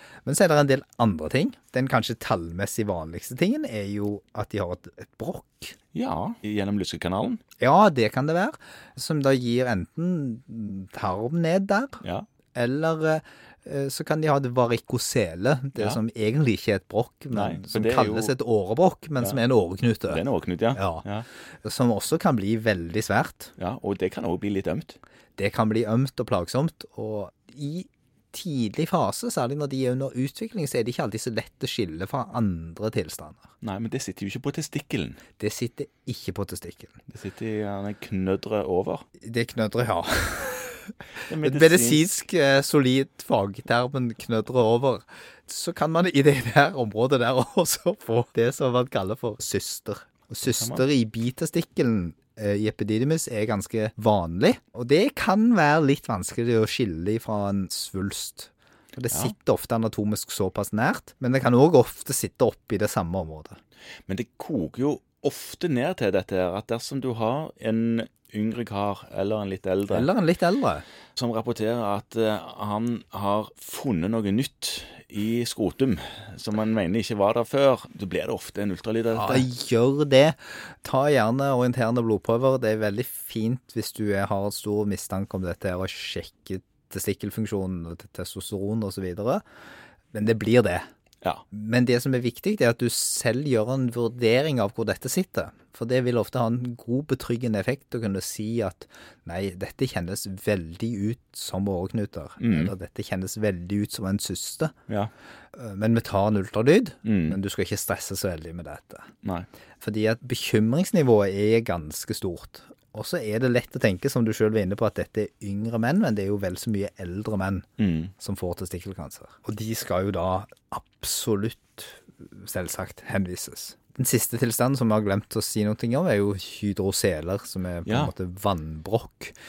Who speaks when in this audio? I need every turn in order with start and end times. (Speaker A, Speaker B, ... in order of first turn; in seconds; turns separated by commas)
Speaker A: 0.2-5.7, Speaker B: 5.9-7.4, Speaker A: 7.6-12.0, Speaker B: 12.0-12.3, Speaker A: 12.5-20.2, Speaker B: 17.3-18.3, Speaker B: 20.1-21.2, Speaker A: 20.7-21.0, Speaker A: 21.6-23.5, Speaker B: 23.6-25.0, Speaker A: 25.4-33.5, Speaker B: 33.6-35.2, Speaker A: 35.4-37.0, Speaker B: 37.1-39.0, Speaker A: 39.2-63.6, Speaker B: 41.2-42.0, Speaker B: 50.4-50.8, Speaker B: 64.1-70.1, Speaker A: 69.9-70.8, Speaker B: 71.2-79.5, Speaker A: 79.1-89.4, Speaker A: 90.1-90.8, Speaker A: 91.5-104.7, Speaker B: 102.4-102.7, Speaker A: 105.5-109.1, Speaker B: 107.0-107.4, Speaker B: 109.2-109.5, Speaker A: 109.8-117.7, Speaker B: 117.8-118.1, Speaker A: 118.2-129.3, Speaker B: 127.8-128.1